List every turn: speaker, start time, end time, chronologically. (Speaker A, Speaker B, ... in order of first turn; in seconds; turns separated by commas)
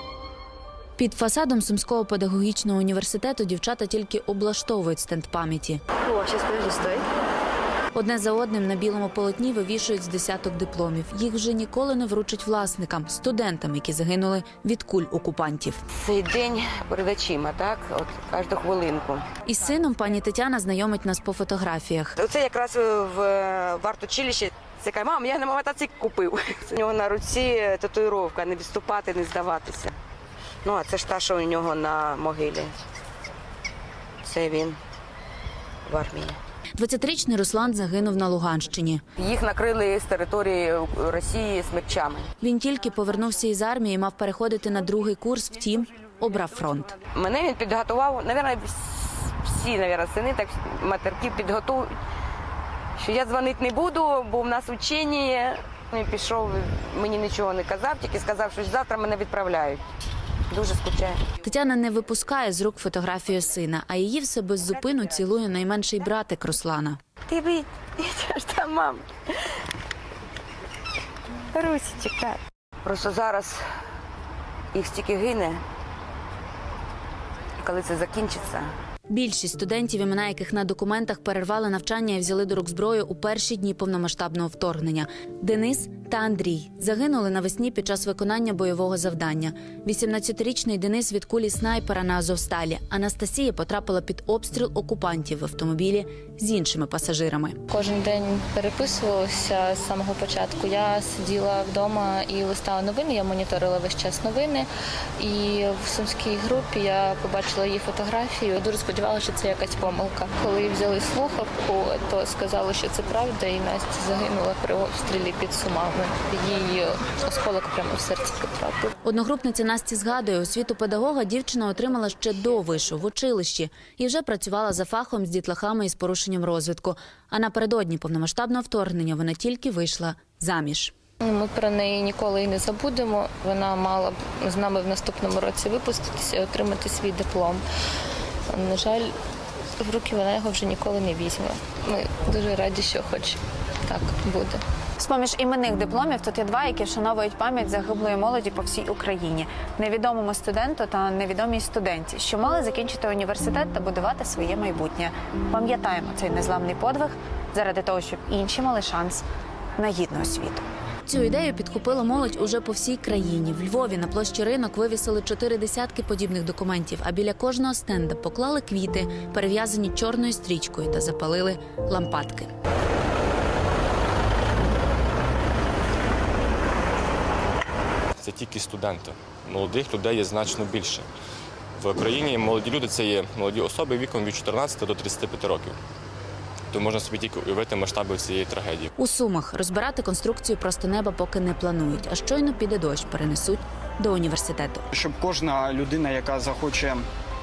Speaker A: 1.0-5.8, Speaker B: 6.2-6.8, Speaker A: 7.9-15.8, Speaker B: 16.0-19.3, Speaker A: 19.4-22.1, Speaker B: 22.2-29.9, Speaker B: 30.6-32.7, Speaker B: 34.2-34.8, Speaker B: 35.9-36.4, Speaker A: 36.8-39.0, Speaker B: 39.2-42.3, Speaker A: 42.4-47.0, Speaker B: 47.1-51.9, Speaker B: 53.0-59.8, Speaker B: 60.5-61.2, Speaker A: 61.4-67.0, Speaker B: 67.3-69.1, Speaker B: 71.5-73.6, Speaker B: 74.7-75.6, Speaker B: 77.6-78.7, Speaker A: 79.1-97.6, Speaker C: 97.7-104.7, Speaker C: 105.2-118.9, Speaker A: 119.0-130.9, Speaker C: 131.2-137.6, Speaker C: 138.5-139.1, Speaker C: 139.8-144.6, Speaker D: 145.0-159.2, Speaker D: 159.8-160.6, Speaker A: 161.1-172.5, Speaker E: 178.2-181.1, Speaker E: 181.8-185.8, Speaker E: 186.7-188.9, Speaker A: 189.0-194.8, Speaker F: 194.9-197.0